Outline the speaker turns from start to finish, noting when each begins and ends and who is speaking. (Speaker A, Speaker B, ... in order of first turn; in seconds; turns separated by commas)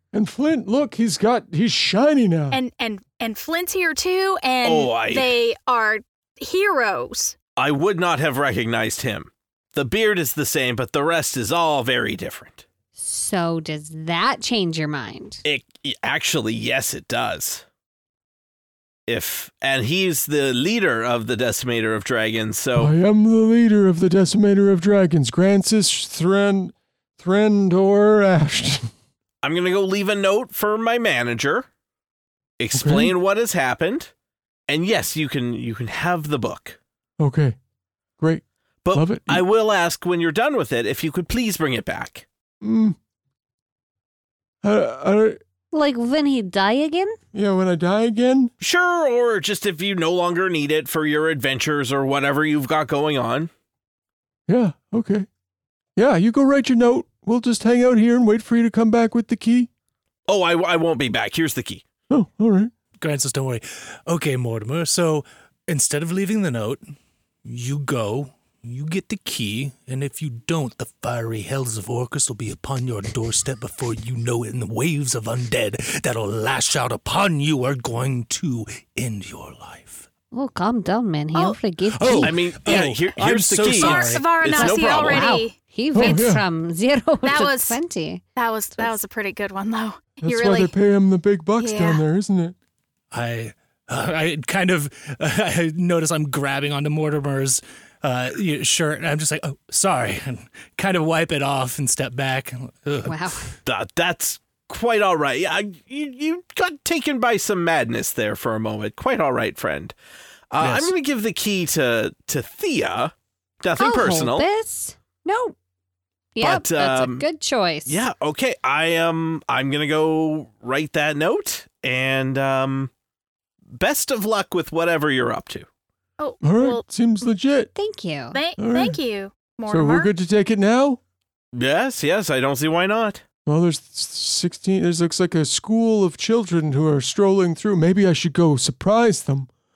Speaker A: 0.1-2.6, Speaker B: 2.5-7.4, Speaker C: 4.6-5.3, Speaker C: 7.6-12.6, Speaker D: 13.0-15.4, Speaker C: 15.4-17.6, Speaker C: 19.1-22.9, Speaker A: 22.8-28.9, Speaker C: 29.4-31.7, Speaker C: 32.6-34.1, Speaker A: 32.7-33.1, Speaker C: 34.7-36.8, Speaker A: 37.2-37.6, Speaker A: 38.2-39.4, Speaker C: 38.9-42.2, Speaker A: 42.6-43.0, Speaker A: 44.6-45.4, Speaker D: 45.7-47.2, Speaker A: 47.3-48.5, Speaker C: 48.6-53.5, Speaker A: 54.5-55.3, Speaker A: 56.0-59.7, Speaker C: 60.3-61.8, Speaker A: 62.1-62.7, Speaker E: 63.0-66.8, Speaker E: 67.5-80.1, Speaker D: 80.3-82.3, Speaker E: 81.9-84.3, Speaker C: 82.2-85.3, Speaker B: 83.8-86.4, Speaker D: 84.5-88.2, Speaker A: 85.9-86.4, Speaker B: 87.2-87.8, Speaker B: 88.4-90.7, Speaker A: 90.2-92.5, Speaker B: 91.6-92.0, Speaker E: 93.1-103.3, Speaker D: 103.0-103.5, Speaker C: 103.7-110.0, Speaker C: 110.5-114.5, Speaker E: 110.6-110.9, Speaker D: 113.8-115.6, Speaker D: 116.4-118.0, Speaker C: 116.4-117.3, Speaker C: 117.9-122.9, Speaker C: 123.7-125.7, Speaker B: 126.2-126.8, Speaker A: 126.4-127.7, Speaker D: 127.8-128.4, Speaker B: 128.3-130.1, Speaker A: 128.6-129.0, Speaker A: 129.7-131.0, Speaker C: 131.5-133.2, Speaker A: 133.5-139.5